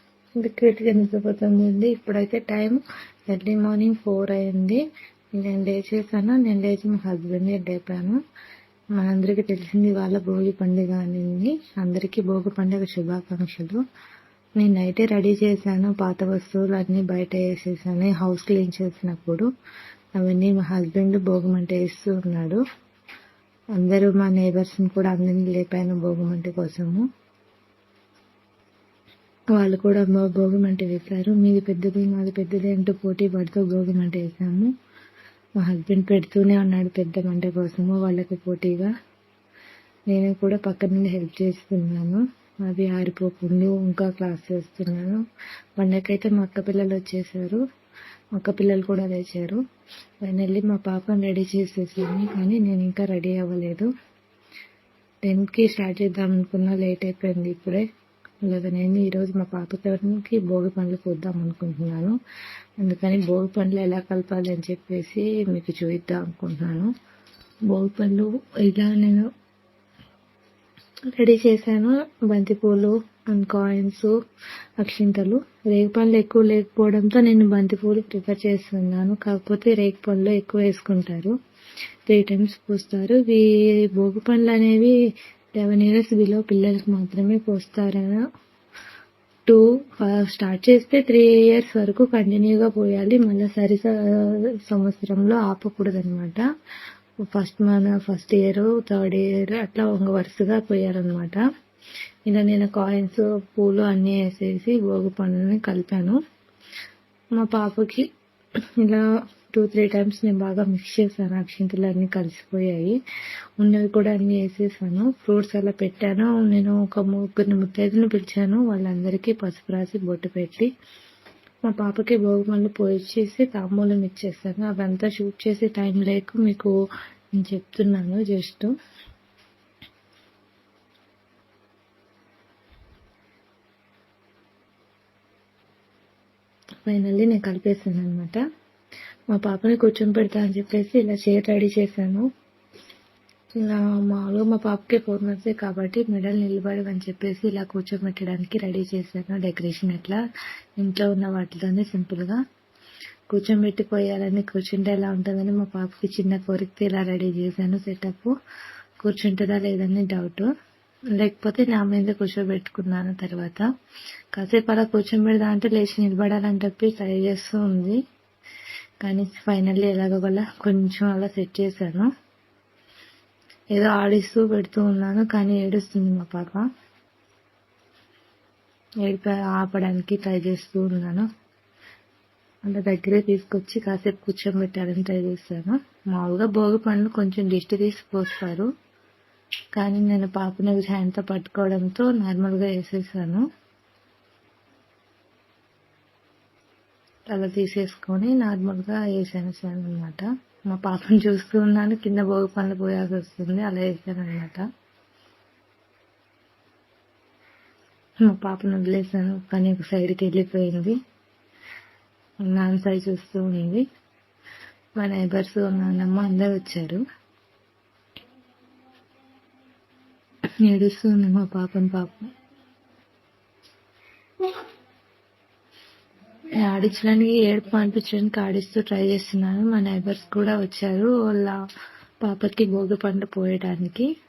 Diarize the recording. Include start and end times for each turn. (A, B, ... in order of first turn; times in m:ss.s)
0:00.4-0:04.8 A
0:05.4-0:08.2 A
0:09.0-0:13.8 A
0:14.6-0:19.5 A
0:20.2-0:22.6 A
0:23.8-0:27.0 A
0:29.6-0:34.7 A
0:35.6-0:38.9 A
0:40.1-0:45.2 A
0:45.8-0:47.6 A
0:48.4-0:49.6 A
0:50.2-0:53.9 A
0:55.2-0:57.9 A
0:58.5-1:02.2 A
1:02.8-1:06.9 A
1:07.7-1:09.3 A
1:11.1-1:14.1 A
1:14.8-1:21.4 A
1:22.1-1:25.0 A
1:25.6-1:28.2 A
1:29.5-1:36.4 A
1:37.2-1:41.4 A
1:42.3-1:46.2 A
1:47.4-1:48.1 A
1:48.8-1:53.0 A
1:53.6-2:00.7 A
2:01.7-2:06.7 A
2:07.4-2:08.7 A
2:16.9-2:18.4 A
2:19.3-2:22.3 A
2:23.6-2:30.2 A
2:30.8-2:32.4 A
2:33.3-2:38.3 A
2:39.0-2:40.5 A
2:41.2-2:43.7 A
2:44.4-2:48.0 A
2:49.0-2:52.1 A
2:53.8-2:56.7 A
2:59.0-3:01.3 A
3:02.7-3:08.7 A
3:09.8-3:13.4 A
3:17.3-3:24.6 A
3:28.2-3:31.0 A
3:32.4-3:33.9 A
3:35.0-3:37.0 A
3:40.6-3:42.3 A
3:46.6-3:51.6 A
3:52.2-3:54.1 A